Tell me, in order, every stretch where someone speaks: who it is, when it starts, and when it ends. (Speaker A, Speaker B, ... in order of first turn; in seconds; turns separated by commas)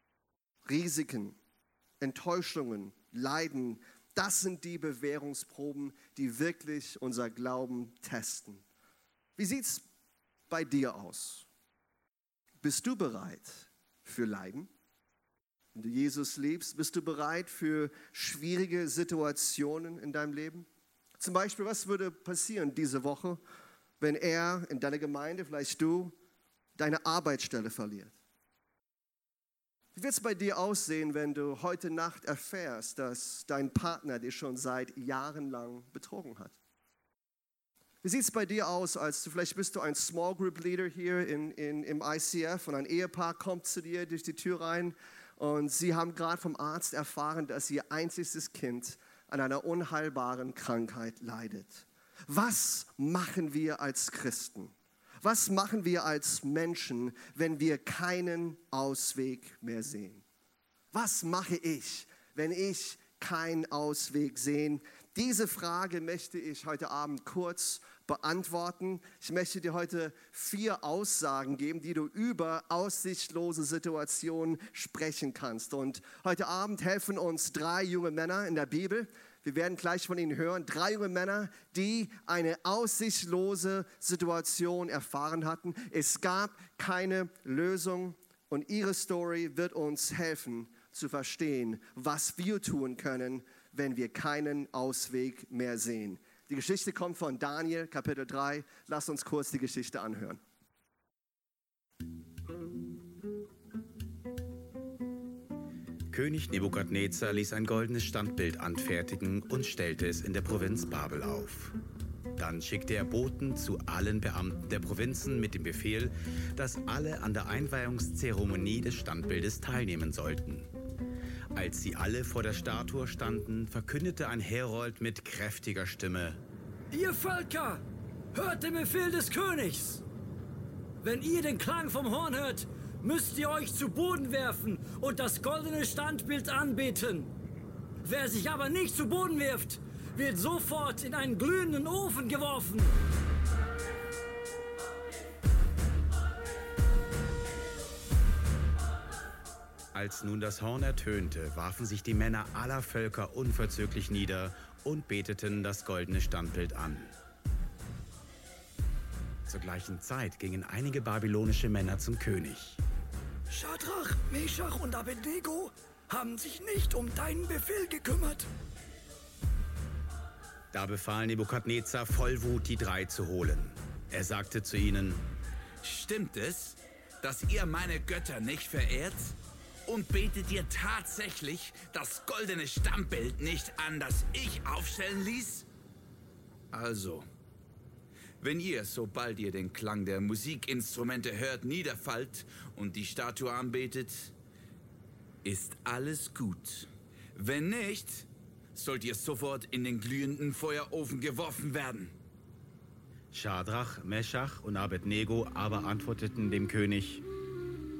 Speaker A: 0.7-1.4, Speaker A: 2.0-8.6, Speaker A: 9.4-9.8, Speaker A: 10.5-11.4, Speaker A: 12.6-14.7, Speaker A: 15.7-20.7, Speaker A: 21.2-23.4, Speaker A: 24.0-26.1, Speaker A: 26.8-28.1, Speaker A: 29.9-36.5, Speaker A: 38.0-60.2, Speaker A: 60.9-100.4, Speaker B: 106.1-111.7, Speaker B: 112.4-120.7, Speaker B: 121.5-126.4, Speaker C: 126.9-127.8, Speaker C: 128.3-130.0, Speaker C: 131.0-137.3, Speaker C: 138.0-142.9, Speaker B: 149.9-157.1, Speaker B: 159.5-162.8, Speaker C: 163.5-168.5, Speaker B: 170.7-175.2, Speaker D: 175.8-185.7, Speaker D: 186.7-187.2, Speaker D: 188.4-194.3, Speaker D: 195.4-202.1, Speaker B: 203.3-207.2